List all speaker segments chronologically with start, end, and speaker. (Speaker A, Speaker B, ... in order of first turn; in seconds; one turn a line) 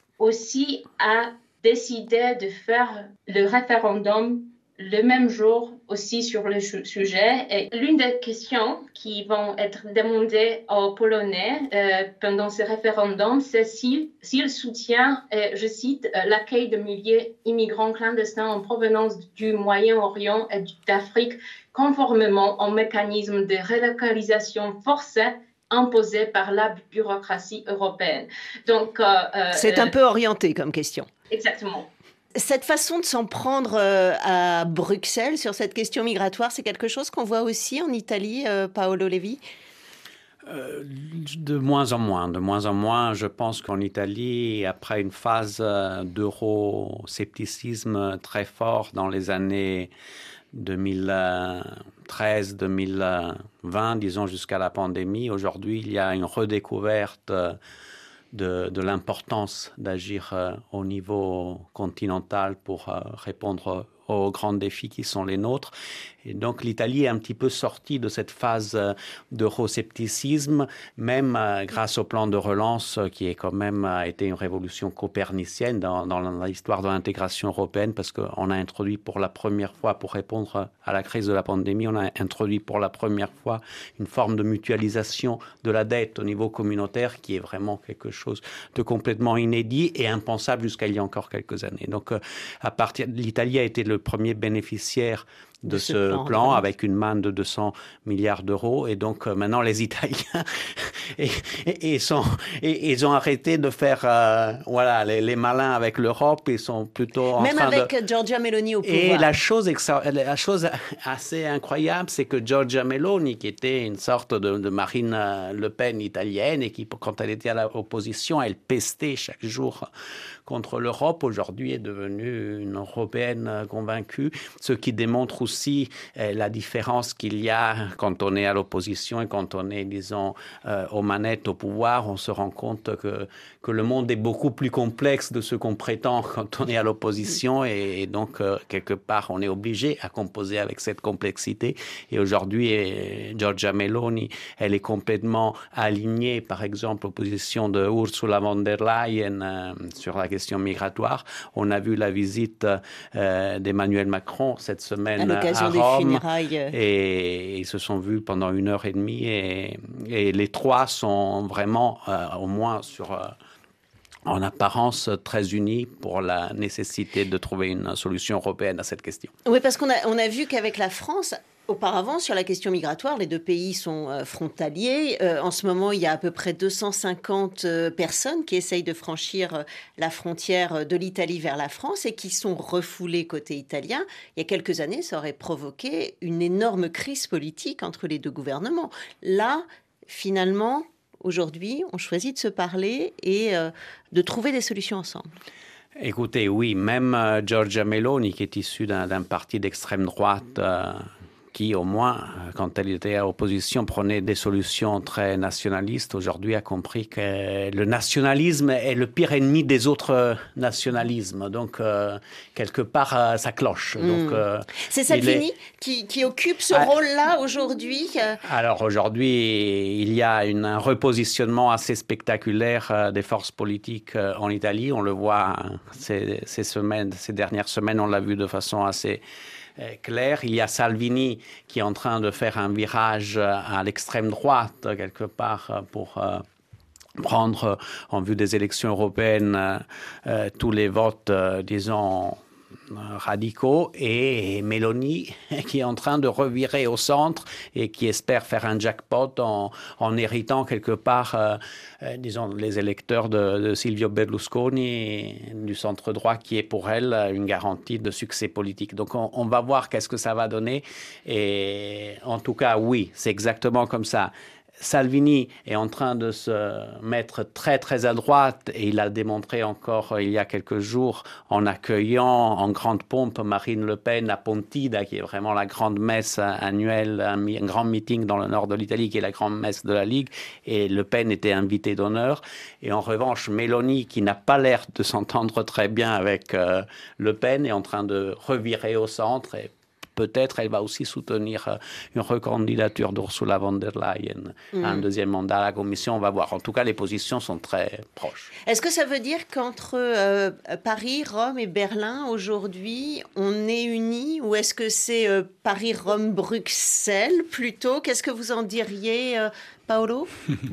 Speaker A: 0.2-29.9
Speaker B: 29.5-31.1
Speaker A: 31.3-31.9
Speaker B: 32.4-39.4
Speaker C: 40.5-49.9
Speaker C: 50.5-57.6
Speaker C: 58.3-107.9
Speaker B: 95.7-96.6
Speaker B: 107.4-109.3
Speaker C: 108.8-119.9
Speaker C: 120.5-163.4
Speaker B: 155.2-156.7
Speaker C: 164.3-169.3
Speaker B: 169.4-195.3
Speaker C: 196.0-215.4
Speaker B: 214.0-218.4
Speaker C: 216.7-217.0
Speaker C: 218.4-229.2
Speaker C: 229.8-236.4
Speaker C: 237.2-298.5
Speaker B: 294.7-295.1
Speaker B: 298.6-310.3